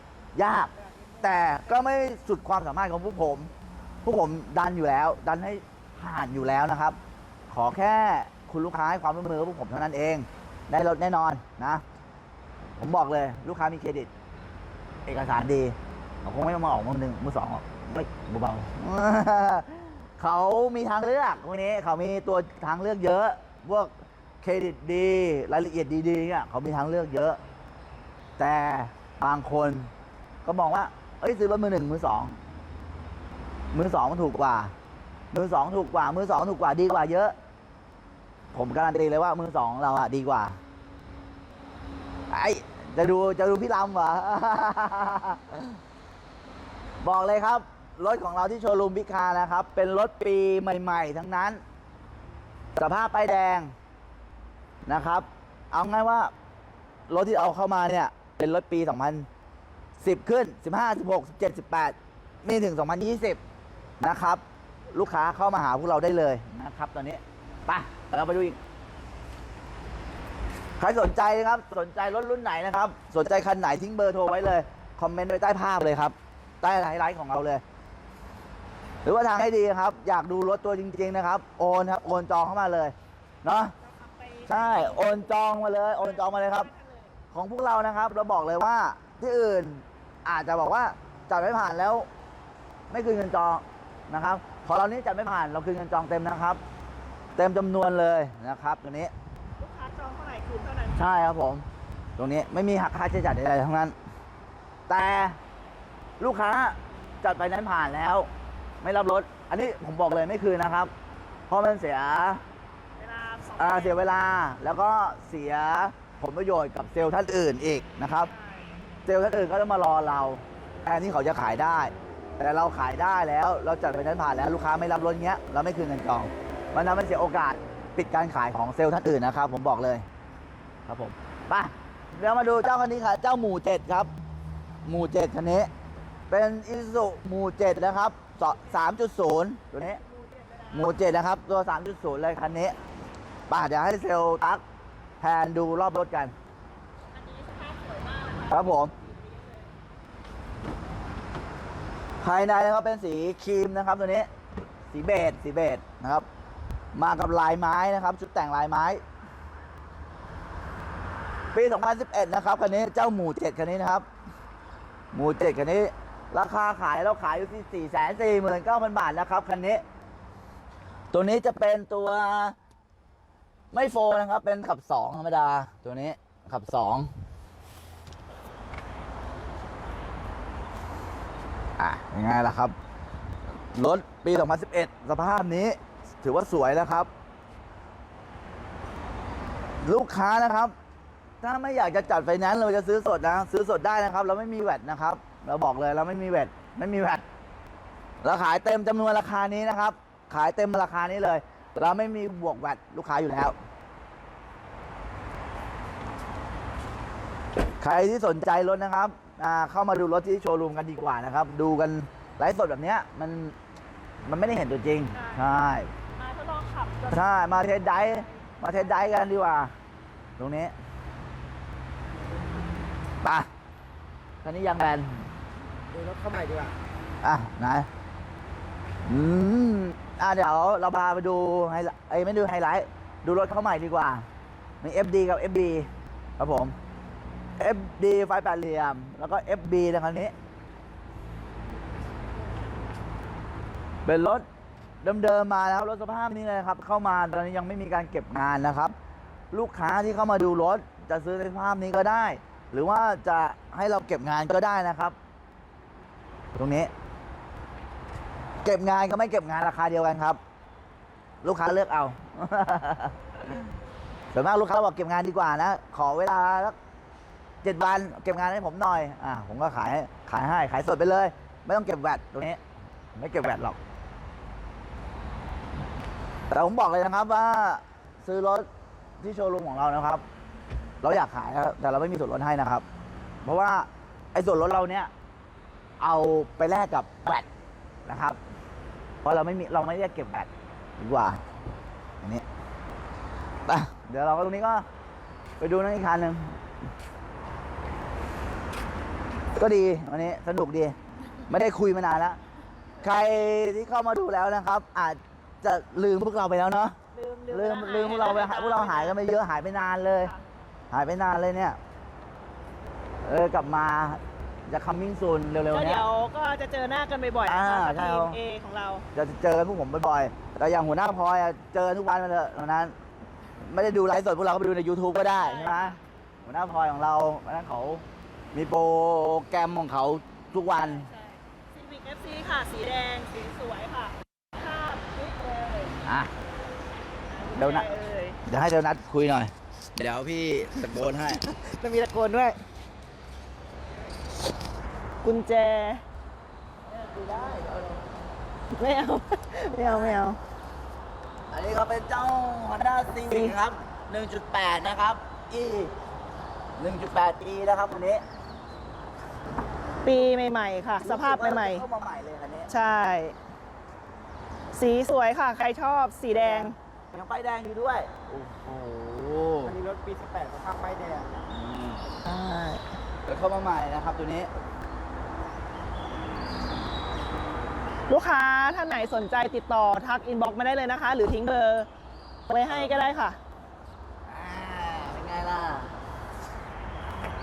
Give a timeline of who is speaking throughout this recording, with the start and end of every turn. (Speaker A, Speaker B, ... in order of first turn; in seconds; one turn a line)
Speaker A: 0.3-3.5
Speaker A: 4.0-7.0
Speaker A: 7.5-11.8
Speaker A: 12.8-14.1
Speaker A: 15.1-23.9
Speaker A: 24.4-27.4
Speaker A: 28.4-29.9
Speaker A: 30.4-32.4
Speaker A: 33.7-34.7
Speaker A: 35.3-37.3
Speaker A: 38.5-40.6
Speaker A: 42.3-45.8
Speaker A: 47.0-51.6
Speaker A: 52.8-53.7
Speaker A: 54.9-56.3
Speaker A: 57.1-59.3
Speaker A: 60.0-63.4
Speaker A: 64.0-68.6
Speaker A: 70.8-77.6
Speaker A: 79.0-83.8
Speaker B: 83.8-87.1
Speaker A: 84.5-86.7
Speaker A: 87.3-92.1
Speaker A: 92.9-96.6
Speaker A: 97.4-99.1
Speaker B: 99.6-101.1
Speaker A: 101.0-101.7
Speaker A: 102.2-104.0
Speaker A: 104.9-105.4
Speaker A: 106.2-108.3
Speaker A: 108.8-110.9
Speaker A: 111.5-112.4
Speaker B: 113.0-114.1
Speaker A: 113.6-118.3
Speaker B: 118.3-118.7
Speaker A: 119.1-130.1
Speaker A: 130.9-134.1
Speaker A: 134.8-135.7
Speaker A: 136.3-140.0
Speaker B: 140.0-141.0
Speaker A: 140.7-142.8
Speaker A: 143.5-144.6
Speaker A: 145.2-146.3
Speaker B: 147.1-149.7
Speaker A: 148.5-148.9
Speaker A: 152.2-154.3
Speaker A: 154.9-156.3
Speaker A: 156.9-159.0
Speaker A: 161.5-164.1
Speaker A: 165.1-169.8
Speaker A: 171.1-172.6
Speaker A: 173.7-177.1
Speaker A: 181.8-182.8
Speaker A: 183.7-187.1
Speaker A: 189.8-190.7
Speaker A: 191.4-197.2
Speaker A: 198.2-203.6
Speaker A: 207.8-213.6
Speaker A: 214.3-215.9
Speaker B: 215.2-215.5
Speaker B: 216.2-218.3
Speaker A: 217.1-219.7
Speaker A: 220.4-220.7
Speaker A: 223.2-223.5
Speaker A: 224.4-225.3
Speaker C: 225.9-226.8
Speaker A: 227.2-227.9
Speaker A: 229.1-234.2
Speaker A: 234.8-236.8
Speaker A: 237.6-240.3
Speaker A: 244.1-244.5
Speaker A: 245.0-248.9
Speaker A: 249.5-255.2
Speaker A: 256.6-256.9
Speaker A: 258.6-260.4
Speaker A: 261.4-263.7
Speaker A: 264.3-266.8
Speaker A: 267.6-272.6
Speaker A: 273.2-273.8
Speaker A: 276.5-278.7
Speaker A: 279.2-280.2
Speaker A: 281.0-282.9
Speaker A: 283.4-285.1
Speaker A: 286.0-287.5
Speaker A: 288.1-288.4
Speaker A: 289.2-291.4
Speaker A: 293.7-294.9
Speaker A: 295.6-296.6
Speaker A: 299.6-301.0
Speaker A: 301.5-302.4
Speaker A: 303.0-307.0
Speaker B: 307.1-309.2
Speaker A: 307.5-310.3
Speaker A: 310.9-311.8
Speaker A: 313.2-316.0
Speaker B: 315.7-319.1
Speaker A: 317.5-318.4
Speaker A: 319.1-322.9
Speaker A: 323.6-325.9
Speaker B: 325.4-326.0
Speaker A: 326.5-331.1
Speaker B: 330.8-336.0
Speaker A: 336.1-336.3
Speaker B: 337.3-338.4
Speaker A: 337.6-337.9
Speaker A: 338.4-341.4
Speaker B: 341.5-342.6
Speaker B: 345.2-346.0
Speaker A: 346.9-348.0
Speaker B: 348.7-350.4
Speaker A: 351.5-355.9
Speaker B: 353.3-353.6
Speaker A: 356.8-358.2
Speaker B: 360.0-361.8
Speaker A: 361.0-362.7
Speaker B: 362.7-363.4
Speaker B: 364.7-366.7
Speaker A: 366.4-369.8
Speaker C: 369.6-371.4
Speaker A: 371.5-372.0
Speaker B: 372.2-372.8
Speaker A: 373.3-374.5
Speaker B: 378.1-381.9
Speaker B: 382.5-383.4
Speaker A: 382.7-383.0
Speaker A: 384.3-385.9